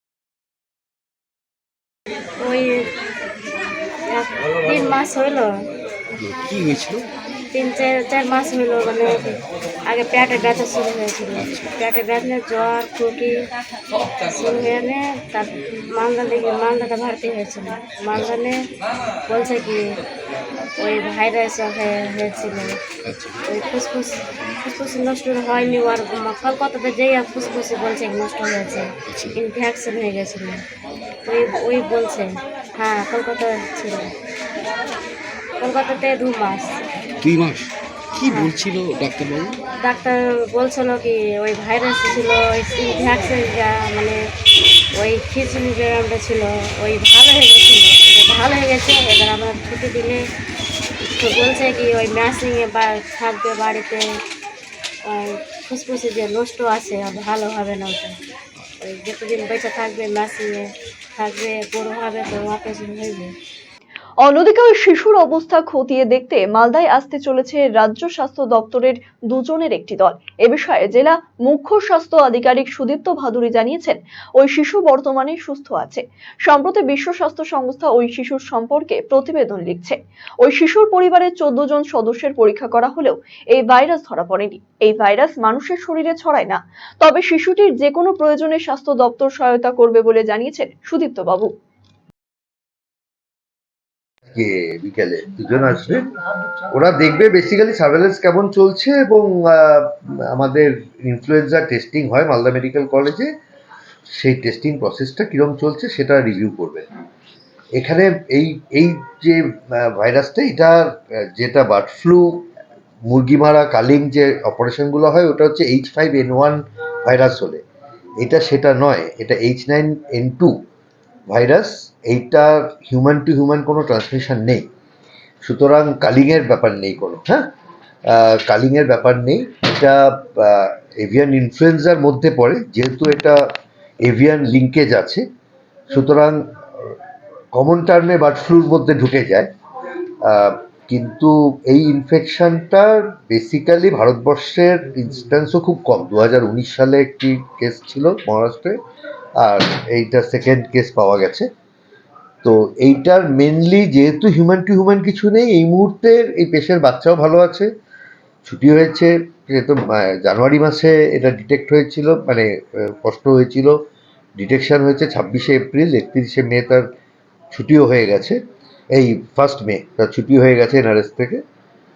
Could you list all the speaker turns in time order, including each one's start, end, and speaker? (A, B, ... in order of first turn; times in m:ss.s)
0:02.4-0:02.8 A
0:04.0-0:05.5 A
0:06.2-0:07.1 B
0:07.5-0:13.3 A
0:11.4-0:11.7 B
0:14.2-0:18.6 A
0:19.3-0:19.8 A
0:20.8-0:22.7 A
0:23.0-0:23.4 B
0:23.5-0:24.1 A
0:24.6-0:30.6 A
0:29.0-0:29.4 B
0:31.3-0:34.1 A
0:35.6-0:36.8 A
0:37.2-0:39.6 B
0:38.3-0:38.5 A
0:39.8-0:44.2 A
0:45.0-0:50.2 A
0:51.1-0:54.0 A
0:55.0-0:58.2 A
0:58.8-1:03.3 A
1:04.2-1:31.5 C
1:34.3-1:36.2 D
1:36.7-1:43.3 D
1:44.1-1:46.8 D
1:47.8-1:52.4 D
1:53.1-1:57.6 D
1:58.2-2:00.5 D
2:01.3-2:04.6 D
2:05.4-2:07.5 D
2:08.1-2:13.4 D
2:14.0-2:15.2 D
2:15.9-2:16.9 D
2:17.5-2:19.5 D
2:20.2-2:28.8 D
2:29.4-2:31.5 D
2:32.4-2:37.7 D
2:38.4-2:43.7 D
2:44.4-2:46.8 D
2:47.5-2:48.4 D
2:48.9-2:51.4 D